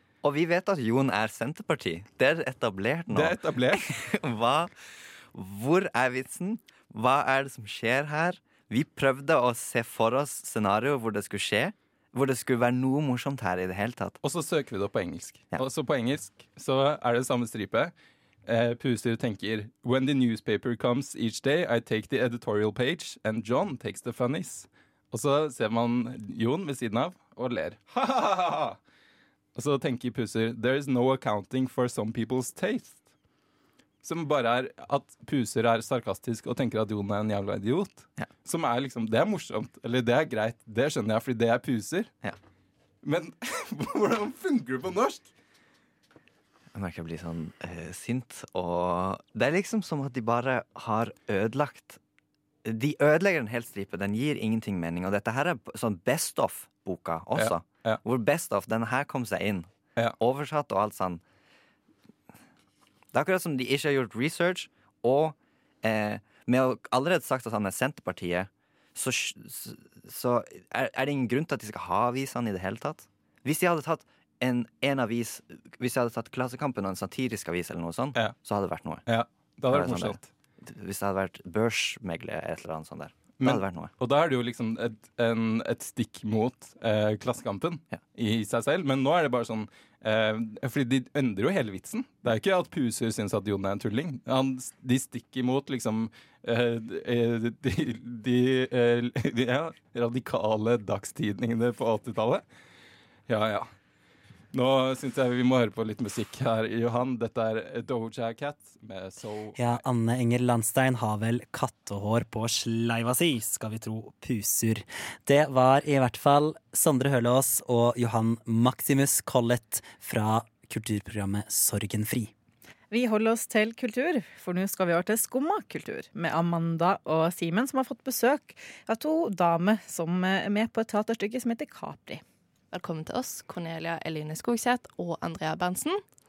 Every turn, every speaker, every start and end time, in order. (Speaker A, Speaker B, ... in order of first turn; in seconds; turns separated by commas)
Speaker A: 0.2-4.7, Speaker B: 3.1-3.8, Speaker A: 5.3-14.2, Speaker B: 14.2-17.9, Speaker B: 18.4-28.8, Speaker B: 29.6-33.0, Speaker B: 34.0-42.1, Speaker B: 43.0-45.3, Speaker A: 46.7-52.0, Speaker A: 52.6-59.7, Speaker B: 57.3-58.0, Speaker A: 60.2-61.2, Speaker A: 63.1-79.0, Speaker B: 79.0-80.3, Speaker A: 79.7-83.9, Speaker B: 83.4-102.4, Speaker B: 103.3-103.7, Speaker B: 104.5-109.8, Speaker C: 109.5-122.3, Speaker D: 122.9-132.2, Speaker E: 132.7-136.0